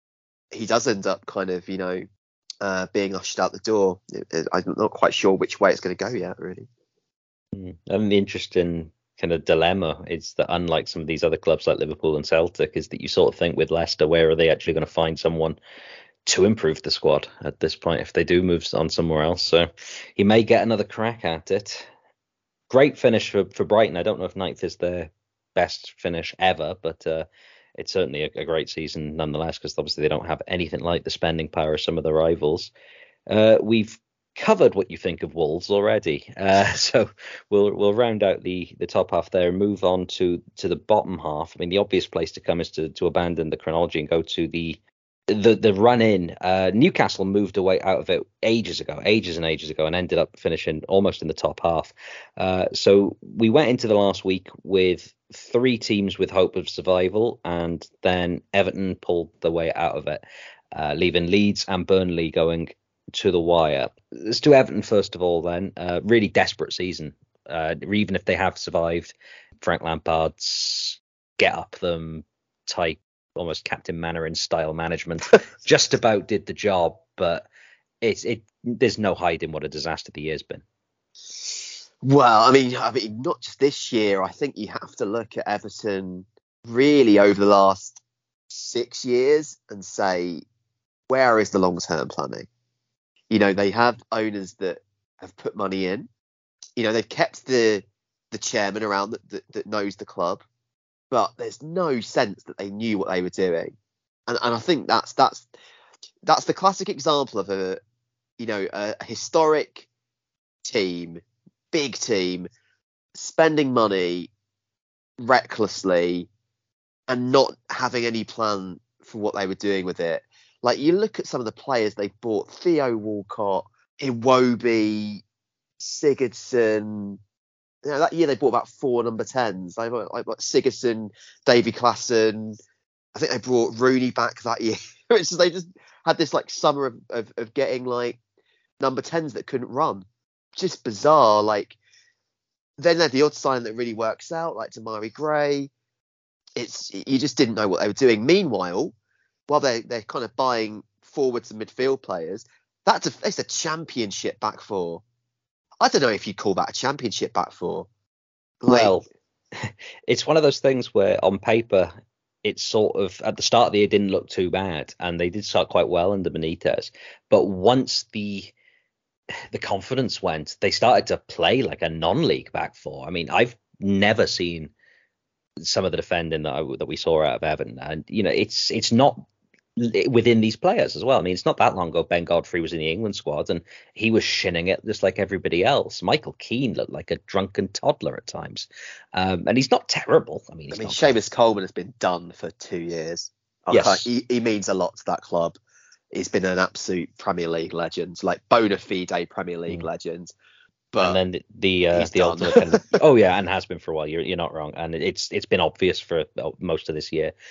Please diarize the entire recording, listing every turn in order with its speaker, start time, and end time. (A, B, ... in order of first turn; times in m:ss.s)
0:00.5-0:02.1 A
0:02.6-0:06.7 A
0:07.5-0:15.6 B
0:16.2-0:21.9 B
0:22.7-0:32.7 B
0:33.3-1:00.2 B
1:00.7-1:17.5 B
1:18.0-1:20.6 B
1:22.0-1:30.4 A
1:31.1-1:32.5 A
1:33.3-1:36.1 A
1:36.8-1:40.4 A
1:41.1-1:43.7 A
1:44.3-1:45.4 A
1:46.2-1:47.8 A
1:48.4-1:49.9 A
1:50.6-1:52.5 A
1:53.1-1:54.3 A
1:55.2-1:56.3 A
1:57.1-2:05.2 A
2:05.8-2:07.2 A
2:07.8-2:12.6 A
2:13.1-2:18.2 A
2:18.8-2:20.0 A
2:20.6-2:21.8 A
2:22.8-2:25.7 A
2:26.6-2:28.9 A
2:29.5-2:35.0 A
2:35.8-2:37.9 A
2:38.6-2:38.9 A
2:38.7-2:41.9 B
2:42.4-2:48.5 B
2:49.5-2:54.7 B
2:55.6-2:59.2 B
2:59.8-3:11.1 B
3:10.7-3:15.6 A
3:13.7-3:14.1 B
3:16.1-3:20.3 A
3:20.9-3:21.2 A
3:21.0-3:27.3 B
3:21.9-3:23.0 A